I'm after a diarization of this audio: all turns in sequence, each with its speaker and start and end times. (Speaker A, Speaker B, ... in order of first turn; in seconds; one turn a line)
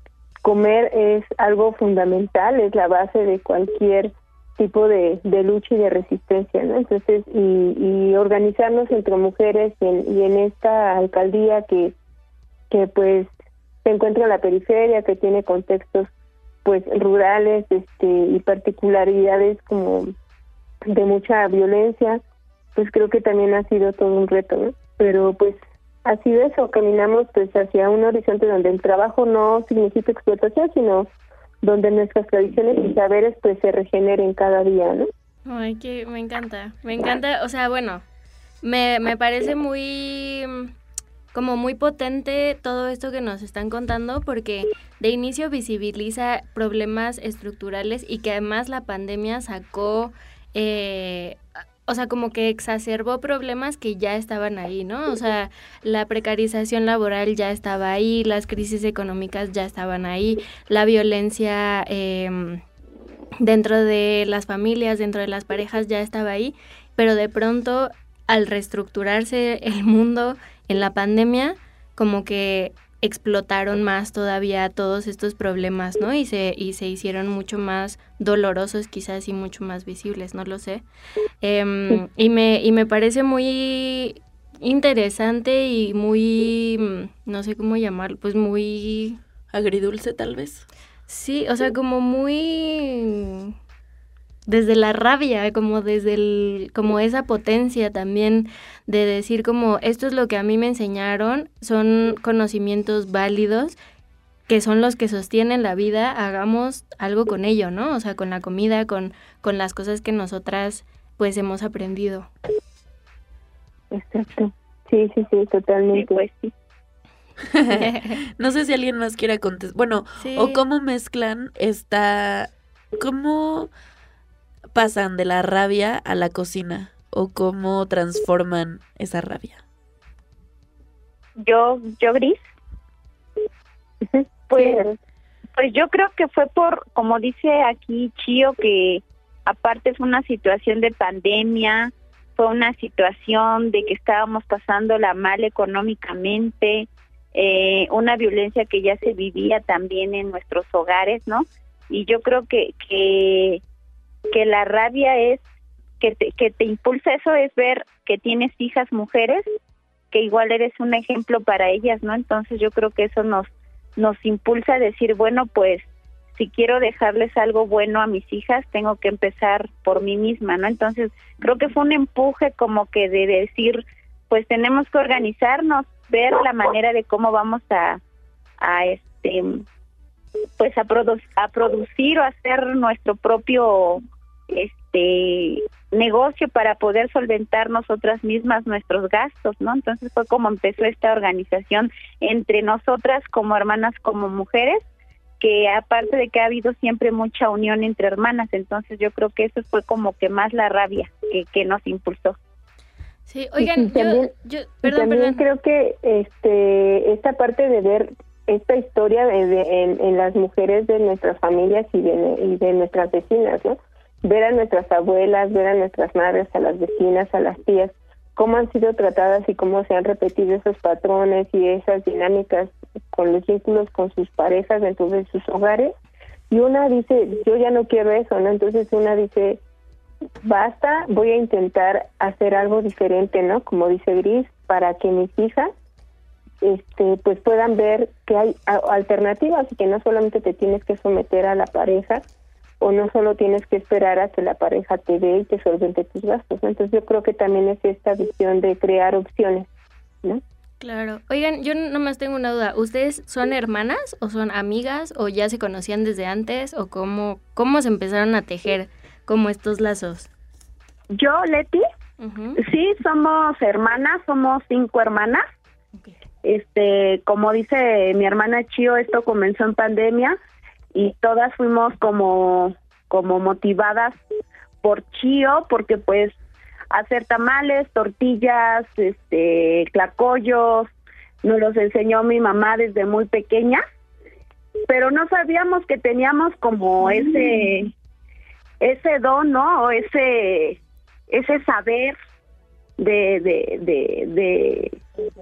Speaker A: 0.4-11.9
Speaker A: 12.7-13.3
Speaker A: 13.8-16.1
Speaker A: 16.6-20.1
Speaker A: 20.9-22.2
Speaker A: 22.7-31.1
Speaker A: 31.6-35.1
Speaker B: 35.5-38.0
Speaker B: 38.6-40.7
Speaker B: 41.3-62.6
Speaker B: 63.4-80.8
Speaker B: 81.4-89.2
Speaker C: 89.5-90.6
Speaker B: 91.1-93.5
Speaker B: 94.5-103.8
Speaker B: 104.5-112.3
Speaker A: 113.9-116.2
Speaker D: 116.0-116.5
Speaker C: 117.5-123.7
Speaker B: 117.7-118.2
Speaker B: 120.2-120.6
Speaker C: 124.7-129.6
Speaker D: 131.4-132.5
Speaker A: 134.1-134.9
Speaker D: 134.5-134.8
Speaker D: 135.6-153.6
Speaker D: 154.3-155.4
Speaker D: 156.0-159.4
Speaker D: 160.1-178.0
Speaker D: 178.6-179.6
Speaker D: 180.6-194.8
Speaker D: 195.4-202.4
Speaker B: 203.3-205.4
Speaker A: 203.6-204.3
Speaker A: 204.8-225.9
Speaker A: 226.5-229.6
Speaker A: 230.4-235.7
Speaker A: 236.6-242.2
Speaker A: 242.8-249.7
Speaker B: 250.8-260.3
Speaker E: 261.1-261.8
Speaker B: 262.2-262.6
Speaker E: 262.6-265.4
Speaker E: 266.4-270.4
Speaker E: 270.9-274.2
Speaker E: 274.8-276.4
Speaker E: 276.9-280.9
Speaker E: 281.4-283.8
Speaker E: 284.9-287.9
Speaker E: 288.8-290.8
Speaker E: 291.3-292.1
Speaker E: 293.0-295.0